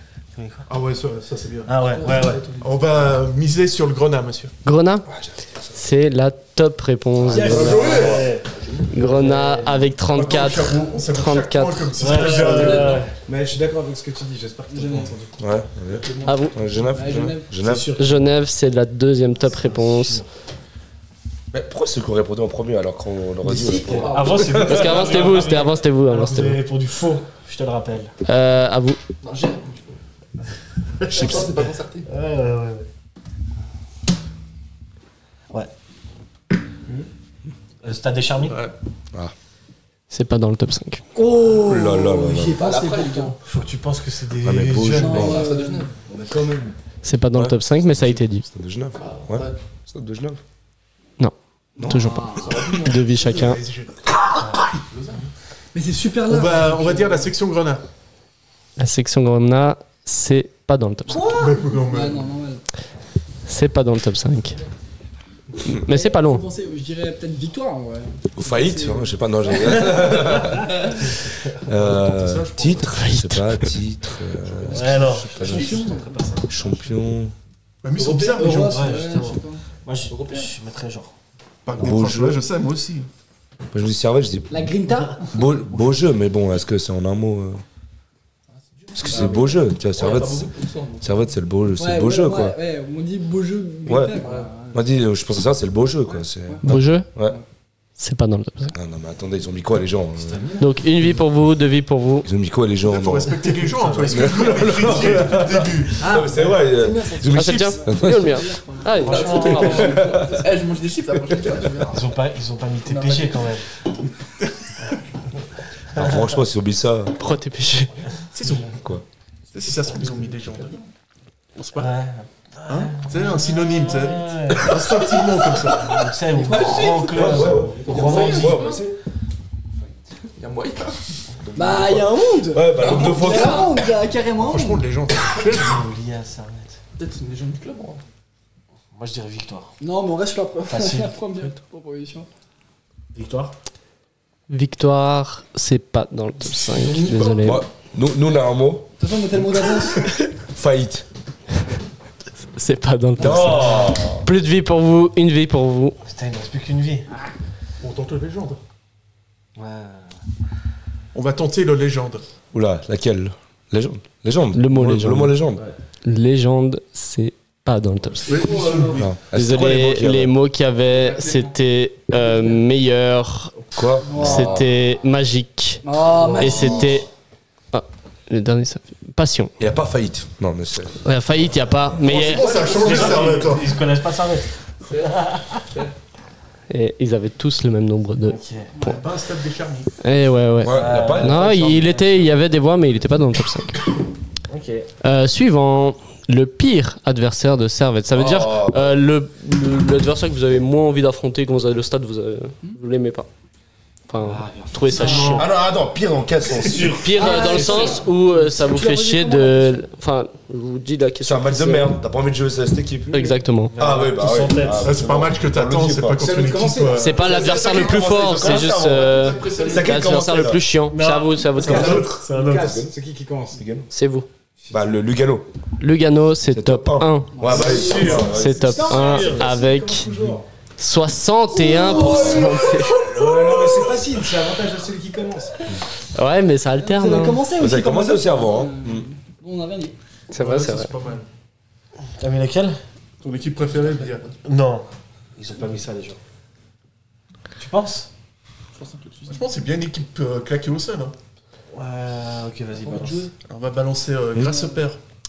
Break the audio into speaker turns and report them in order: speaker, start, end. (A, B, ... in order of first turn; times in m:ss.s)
0:00.4-0:00.7 A
0:00.7-0:01.7 B
0:01.7-0:02.5 A
0:01.9-0:02.7 C
0:02.6-0:04.5 B
0:04.6-0:05.1 D
0:05.1-0:05.8 E
0:05.7-0:08.1 D
0:07.3-0:08.0 F
0:07.4-0:09.8 A
0:07.4-0:08.4 B
0:07.5-0:07.9 E
0:08.3-0:08.9 C
0:08.9-0:11.9 D
0:10.1-0:13.1 B
0:12.0-0:13.1 A
0:12.2-0:13.0 C
0:13.2-0:16.0 G
0:14.7-0:15.1 F
0:15.4-0:17.9 E
0:16.0-0:17.2 C
0:16.2-0:16.6 D
0:16.9-0:17.6 F
0:17.6-0:18.2 A
0:18.0-0:20.2 D
0:19.4-0:20.3 A
0:21.5-0:25.0 E
0:23.4-0:28.1 A
0:23.5-0:25.6 C
0:24.6-0:26.6 D
0:28.3-0:29.0 D
0:29.2-0:30.0 C
0:31.0-0:32.9 A
0:31.0-0:32.1 C
0:31.2-0:31.5 E
0:37.8-0:38.6 A
0:40.1-0:41.0 D
0:41.2-0:43.4 F
0:41.6-0:42.6 E
0:42.6-0:43.4 C
0:43.4-0:45.4 A
0:44.4-0:45.4 E
0:44.9-0:45.9 F
0:45.0-0:45.9 C
0:46.0-0:46.8 G
0:47.0-0:48.5 D
0:47.4-0:50.4 E
0:49.0-0:49.6 C
0:51.2-0:53.6 D
0:51.8-0:53.6 F
0:52.4-0:53.1 C
0:53.3-0:54.0 B
0:54.9-0:55.3 C
0:55.7-0:57.3 F
0:56.3-0:57.8 B
0:58.8-1:01.4 D
1:01.1-1:02.6 F
1:01.3-1:02.3 B
1:03.5-1:04.6 D
1:05.8-1:06.4 D
1:05.8-1:10.5 F
1:08.4-1:10.7 E
1:11.6-1:15.8 E
1:11.7-1:13.0 B
1:12.9-1:13.8 D
1:14.4-1:16.0 C
1:14.7-1:16.6 A
1:15.3-1:16.3 F
1:16.5-1:17.3 E
1:17.8-1:19.0 B
1:18.0-1:19.6 F
1:18.2-1:18.6 C
1:18.6-1:21.1 A
1:20.1-1:20.5 C
1:21.7-1:23.1 B
1:21.8-1:22.4 E
1:23.7-1:24.7 E
1:24.5-1:25.5 F
1:25.2-1:27.6 E
1:28.5-1:31.3 C
1:29.0-1:30.5 E
1:29.0-1:29.6 F
1:31.0-1:32.6 E
1:31.8-1:34.8 F
1:33.9-1:34.2 E
1:34.2-1:34.5 C
1:34.7-1:37.4 E
1:36.6-1:37.1 D
1:38.0-1:38.8 D
1:38.7-1:40.4 E
1:40.6-1:42.3 D
1:42.2-1:43.4 E
1:42.8-1:46.1 B
1:43.8-1:44.2 A
1:44.0-1:48.4 E
1:46.0-1:49.8 F
1:47.3-1:49.9 D
1:49.0-1:50.1 A
1:49.0-1:52.1 C
1:49.8-1:50.4 E
1:51.8-1:53.7 A
1:52.9-1:53.5 C
1:56.0-1:57.2 E
1:57.2-1:58.0 D
1:58.3-1:58.8 B
1:58.7-1:59.0 E
1:59.5-2:00.8 B
2:00.2-2:00.8 C
2:01.6-2:01.9 B
2:01.8-2:08.7 A
2:02.7-2:06.1 B
2:06.3-2:08.6 F
2:06.4-2:07.3 C
2:07.1-2:08.9 E
2:07.4-2:08.8 G
2:07.9-2:08.8 C
2:10.4-2:11.1 C
2:11.5-2:13.8 E
2:11.5-2:14.9 F
2:12.8-2:13.8 C
2:14.4-2:15.8 B
2:15.5-2:16.8 A
2:17.0-2:18.0 C
2:18.9-2:19.7 A
2:19.8-2:22.3 F
2:20.7-2:21.5 A
2:23.2-2:23.6 A
2:24.5-2:27.6 D
2:26.5-2:27.6 C
2:27.4-2:31.1 E
2:29.0-2:30.2 F
2:32.6-2:36.0 D
2:33.2-2:34.3 E
2:33.2-2:34.0 A
2:36.0-2:37.1 A
2:37.8-2:38.6 B
2:39.6-2:40.2 A
2:41.1-2:42.2 B
2:42.5-2:45.6 E
2:44.5-2:45.4 D
2:46.0-2:48.4 D
2:48.2-2:49.1 B
2:48.3-2:49.0 C
2:48.4-2:48.9 F
2:49.0-2:50.4 E
2:49.3-2:53.6 D
2:50.9-2:51.6 C
2:52.3-2:52.6 C
2:53.7-2:54.7 E
2:54.0-2:54.6 F
2:54.2-2:55.8 D
2:55.8-2:57.0 F
2:56.3-2:57.0 E
2:56.4-2:57.1 D
2:57.7-2:59.5 D
2:59.6-3:01.0 E
3:01.0-3:02.6 D
3:02.0-3:03.8 B
3:02.1-3:03.5 C
3:02.5-3:05.6 A
3:04.9-3:05.9 C
3:06.7-3:08.4 D
3:08.2-3:08.9 A
3:08.8-3:09.9 B
3:10.0-3:13.8 D
3:10.6-3:12.3 E
3:10.7-3:11.6 A
3:14.5-3:14.9 A
3:15.0-3:23.3 D
3:18.1-3:19.0 E
3:24.1-3:25.5 D
3:24.2-3:25.6 A
3:25.0-3:25.4 F
3:25.4-3:27.0 E
3:26.5-3:27.9 A
3:26.9-3:32.0 D
3:27.1-3:29.9 F
3:31.2-3:36.4 E
3:33.1-3:33.7 D
3:33.7-3:35.0 A
3:34.7-3:37.8 B
3:36.2-3:37.6 G
3:36.9-3:42.1 D
3:37.2-3:40.6 E
3:38.3-3:39.1 A
3:39.1-3:40.2 C
3:39.1-3:39.9 B
3:40.9-3:42.8 A
3:41.6-3:43.6 G
3:41.7-3:42.9 E
3:43.5-3:43.9 E
3:43.9-3:44.3 D
3:44.7-3:45.5 E
3:45.8-3:47.5 D
3:46.5-3:49.0 E
3:47.4-3:48.1 F
3:47.5-3:50.5 G
3:47.5-3:49.6 A
3:48.1-3:50.1 D
3:50.8-3:53.0 D
3:51.7-3:52.6 F
3:51.9-3:55.7 G
3:52.1-3:52.5 E
3:53.2-3:53.9 E
3:56.1-3:57.4 D
3:56.8-4:00.0 F
3:57.6-3:59.1 E
4:00.3-4:00.9 D
4:00.3-4:01.3 B
4:02.2-4:02.8 A
4:03.2-4:04.3 B
4:03.7-4:04.4 C
4:04.4-4:06.2 A
4:07.6-4:08.1 A
4:08.8-4:09.5 C
4:09.3-4:11.2 B
4:11.7-4:13.3 A
4:12.8-4:13.3 C
4:13.4-4:15.0 B
4:14.4-4:14.9 F